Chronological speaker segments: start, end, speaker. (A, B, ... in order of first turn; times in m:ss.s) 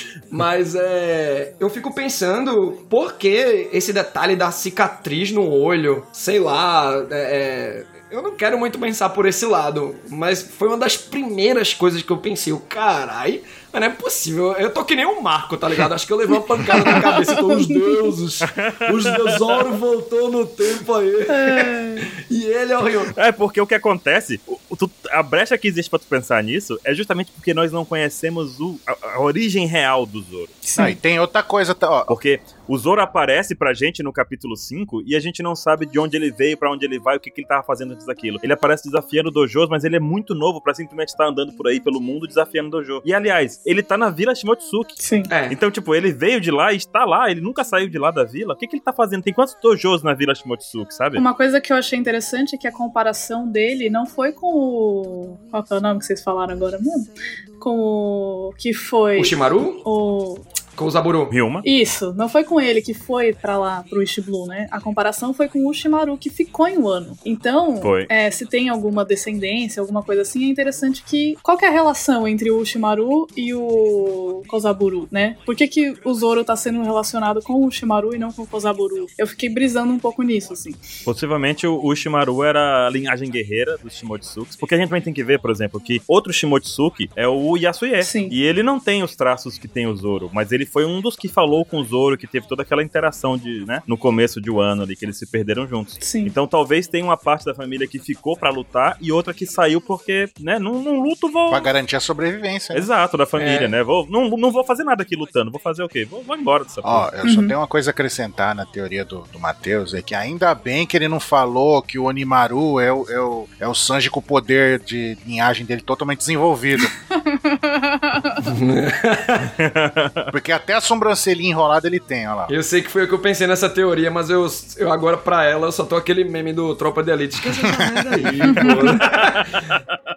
0:00.3-0:23.1 A
0:16.7-0:18.1 B
0:18.4-0:19.6 C
0:21.3-0:22.1 B
0:23.1-0:30.6 C
0:30.6-0:31.0 B
0:30.8-0:32.1 D
0:32.1-0:51.2 C
0:45.0-0:45.3 B
0:45.3-0:45.6 A
0:51.2-1:00.4 B
0:59.1-0:59.8 A
1:00.8-1:01.3 A
1:01.3-1:01.6 C
1:01.6-1:20.8 B
1:07.8-1:08.1 C
1:21.0-1:41.7 C
1:28.0-1:28.4 B
1:36.0-1:36.3 B
1:41.5-1:42.9 D
1:42.7-1:47.1 C
1:43.4-1:43.7 A
1:46.8-1:56.9 D
1:47.2-1:47.5 B
1:56.8-1:58.5 B
1:58.4-1:59.5 A
1:59.6-2:00.3 C
2:00.3-2:02.5 D
2:02.5-2:09.6 A
2:08.4-2:09.0 B
2:08.9-2:09.8 C